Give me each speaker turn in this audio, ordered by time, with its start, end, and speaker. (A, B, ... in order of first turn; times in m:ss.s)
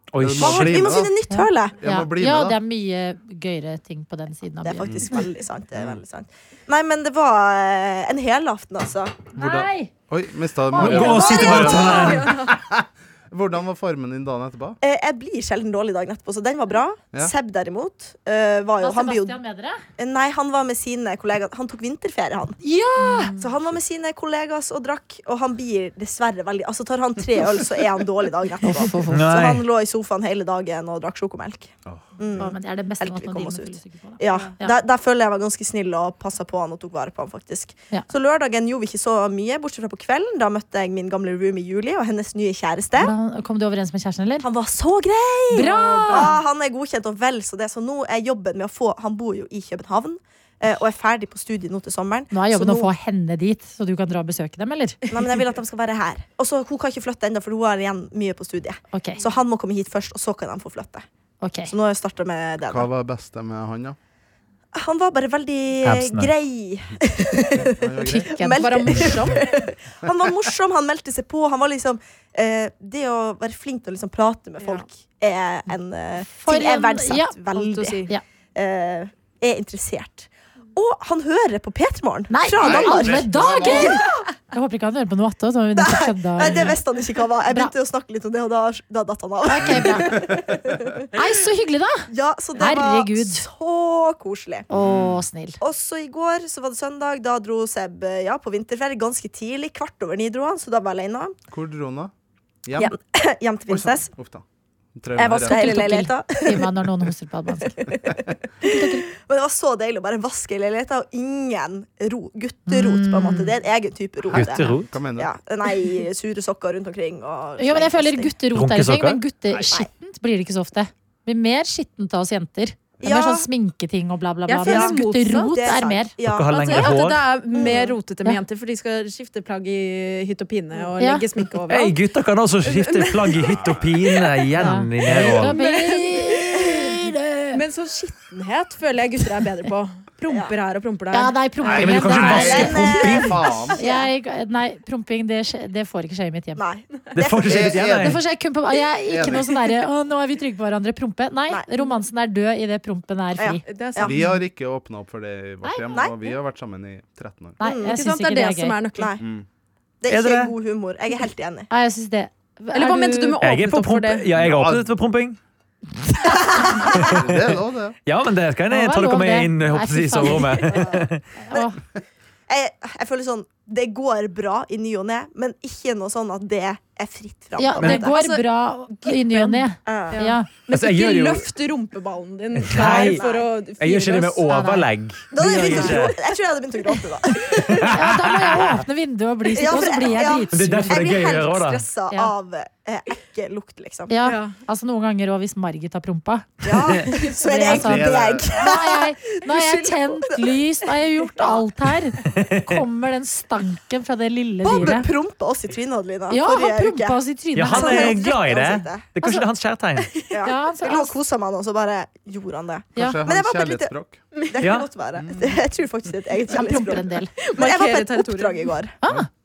0:00.1-0:00.9 A
0:00.2-0:01.1 B
0:00.4-0:01.8 C
0:01.3-0:05.2 D
0:01.8-0:02.6 B
0:04.6-0:09.2 C
0:05.8-0:06.0 B
0:09.4-0:09.9 D
0:09.4-0:14.8 B
0:10.8-0:12.3 A
0:10.8-0:11.6 D
0:10.9-0:12.2 C
0:10.9-0:12.6 E
0:14.8-0:19.4 C
0:18.8-0:19.8 D
0:20.0-0:22.6 C
0:22.6-0:23.4 D
0:23.4-0:43.1 C
0:28.6-0:29.2 D
0:29.1-0:29.6 A
0:31.9-0:32.4 B
0:32.4-0:34.7 D
0:43.0-0:44.4 D
0:44.4-0:52.9 C
0:45.5-0:46.4 D
0:45.6-0:46.4 E
0:52.3-0:55.0 D
0:55.1-1:01.1 C
0:58.9-0:59.2 D
1:01.4-1:01.7 D
1:01.7-1:02.9 C
1:02.7-1:04.0 B
1:04.8-1:18.0 C
1:05.8-1:06.3 A
1:07.6-1:08.3 B
1:08.0-1:08.8 D
1:08.6-1:09.4 E
1:14.6-1:14.8 E
1:16.4-1:17.4 D
1:17.5-1:18.1 E
1:18.6-1:24.2 C
1:22.3-1:24.0 D
1:22.6-1:24.0 B
1:24.5-1:26.8 D
1:25.8-1:31.0 C
1:29.4-1:30.3 D
1:29.6-1:30.9 B
1:31.1-1:33.4 D
1:32.1-1:34.7 C
1:34.7-1:35.6 D
1:34.7-1:35.2 B
1:35.6-1:41.4 C
1:41.5-1:42.1 B
1:42.6-1:42.9 B
1:42.8-1:44.1 C
1:43.7-1:44.4 B
1:45.0-1:45.8 B
1:45.2-1:46.7 C
1:45.4-1:47.8 D
1:47.7-1:58.3 C
1:48.6-1:49.0 D
1:52.7-1:53.5 D
1:54.3-1:54.9 A
1:54.9-1:55.3 B
1:57.6-2:06.1 D
1:58.5-1:59.2 A
2:03.0-2:03.5 C
2:04.5-2:05.5 E
2:04.6-2:07.0 C
2:06.3-2:07.3 A
2:06.5-2:12.0 E
2:07.5-2:08.0 C
2:11.0-2:11.2 D
2:11.7-2:15.6 A
2:12.6-2:13.6 E
2:13.4-2:13.9 B
2:14.6-2:17.6 D
2:15.1-2:16.5 E
2:17.5-2:21.4 E
2:20.3-2:20.5 C
2:21.1-2:23.1 D
2:21.7-2:23.8 B
2:21.7-2:23.4 A
2:22.3-2:24.1 C
2:23.8-2:26.6 D
2:26.6-2:27.6 C
2:27.1-2:28.2 A
2:27.4-2:28.2 B
2:28.0-2:33.6 D
2:29.1-2:29.6 B
2:33.4-2:34.2 C
2:33.6-2:34.2 E
2:34.0-2:37.6 B
2:35.9-2:36.3 C
2:37.6-2:38.8 D
2:37.6-2:38.0 C
2:37.8-2:39.1 E
2:39.0-2:39.2 C
2:39.2-2:39.5 B
2:40.0-2:41.7 C
2:40.1-2:40.5 A
2:41.7-2:43.4 D
2:42.7-2:44.3 E
2:43.4-2:45.4 A
2:44.4-2:44.9 B
2:46.2-2:47.1 C
2:46.9-2:48.0 B
2:46.9-2:51.2 A
2:48.7-2:50.8 D
2:50.6-2:51.7 C
2:51.4-2:51.8 D
2:52.5-2:58.1 C
2:57.6-3:00.5 D
2:57.8-3:04.5 E
2:59.9-3:00.2 C
3:00.7-3:01.5 A
3:02.6-3:03.2 A
3:02.7-3:03.5 C
3:03.8-3:06.2 A
3:04.5-3:04.9 D
3:05.3-3:07.8 C
3:07.4-3:08.7 A
3:07.9-3:11.0 D
3:09.5-3:14.2 C
3:10.5-3:11.8 A
3:14.1-3:25.1 D
3:14.2-3:14.6 E
3:16.6-3:20.6 C
3:17.6-3:18.5 B
3:21.2-3:21.6 C
3:22.3-3:22.8 A
3:24.6-3:29.1 C
3:26.3-3:28.2 D
3:27.6-3:30.1 A
3:30.2-3:33.9 C
3:30.4-3:31.1 D
3:33.0-3:34.2 B
3:34.5-3:38.9 C
3:34.6-3:34.9 A
3:35.2-3:35.6 B
3:36.5-3:37.3 D
3:37.4-3:38.7 E
3:39.0-3:39.3 D